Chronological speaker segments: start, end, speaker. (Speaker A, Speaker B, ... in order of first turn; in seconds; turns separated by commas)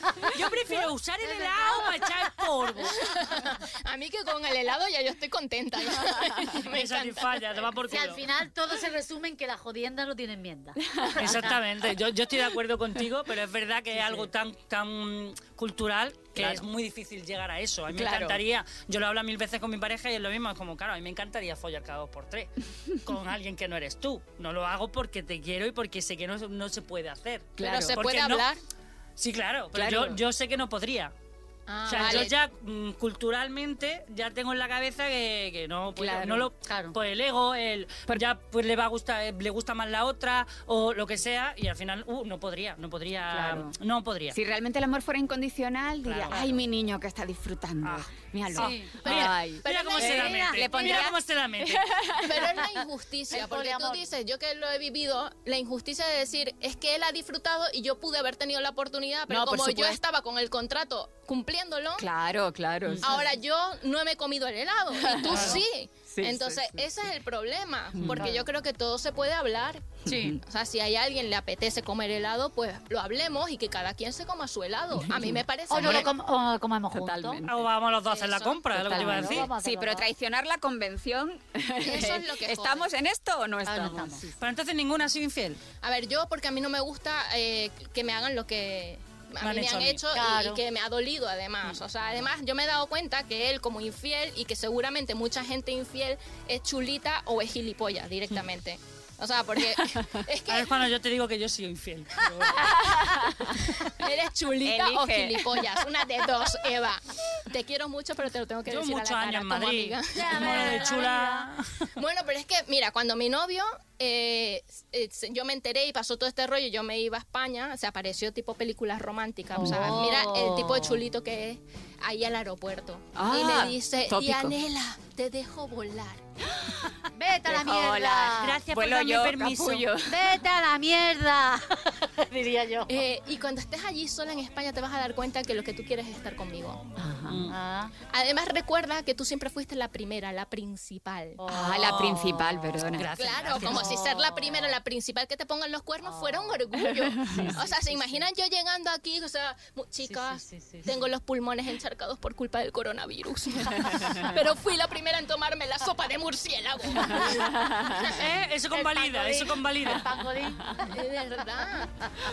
Speaker A: 0.2-3.0, Speaker B: 1.2-2.1, Speaker C: 2.8-7.7, Speaker A: 6.6-8.2, Speaker B: 7.9-11.5, Speaker D: 10.8-11.6, Speaker A: 11.2-22.5, Speaker B: 14.0-14.3, Speaker D: 16.4-16.6, Speaker D: 17.9-18.4, Speaker A: 23.0-28.5, Speaker D: 27.6-28.0, Speaker C: 27.6-28.6, Speaker A: 29.2-31.1, Speaker D: 29.7-30.2, Speaker C: 31.7-32.3, Speaker A: 31.9-44.4, Speaker D: 36.0-36.5, Speaker B: 36.6-37.0, Speaker D: 43.3-43.8, Speaker D: 44.3-52.6, Speaker A: 46.0-46.6, Speaker A: 47.8-51.9, Speaker B: 48.5-49.0, Speaker C: 49.0-51.0, Speaker B: 50.2-50.6, Speaker C: 52.2-62.1, Speaker B: 53.3-54.0, Speaker D: 59.3-60.0, Speaker D: 62.0-63.2, Speaker B: 62.9-63.2, Speaker C: 63.0-76.1, Speaker D: 64.9-66.9, Speaker A: 65.3-65.6, Speaker D: 68.0-68.3, Speaker B: 68.1-68.4, Speaker B: 70.0-70.4, Speaker D: 70.0-70.4, Speaker D: 75.0-76.0, Speaker B: 75.7-77.4, Speaker D: 76.9-77.7, Speaker A: 77.5-79.5, Speaker C: 78.1-78.7, Speaker D: 78.7-84.4, Speaker B: 78.9-80.1, Speaker C: 81.8-82.9, Speaker B: 83.7-84.2, Speaker A: 84.4-85.6, Speaker C: 85.8-100.8, Speaker A: 89.4-90.0, Speaker B: 90.1-90.6, Speaker A: 100.5-102.7, Speaker D: 102.5-103.7, Speaker C: 103.8-110.9, Speaker D: 104.6-105.7, Speaker A: 108.7-111.9, Speaker B: 110.1-111.5, Speaker C: 112.0-126.2, Speaker B: 119.5-121.0, Speaker D: 119.6-120.0, Speaker D: 123.2-124.6, Speaker D: 126.4-130.3, Speaker B: 127.1-128.6, Speaker A: 128.4-129.9, Speaker B: 130.1-133.0, Speaker C: 132.9-136.8, Speaker D: 137.0-137.5, Speaker A: 137.3-137.6, Speaker B: 137.5-137.9, Speaker C: 138.1-141.4, Speaker B: 141.4-142.2, Speaker D: 141.5-143.1, Speaker A: 141.8-144.1, Speaker C: 143.2-158.0, Speaker B: 143.6-144.8, Speaker B: 146.1-146.7, Speaker D: 146.8-147.6, Speaker B: 147.3-148.3, Speaker B: 150.1-150.9, Speaker D: 157.1-158.2, Speaker B: 157.2-158.2, Speaker A: 158.0-160.2, Speaker B: 158.7-160.9, Speaker C: 160.8-162.0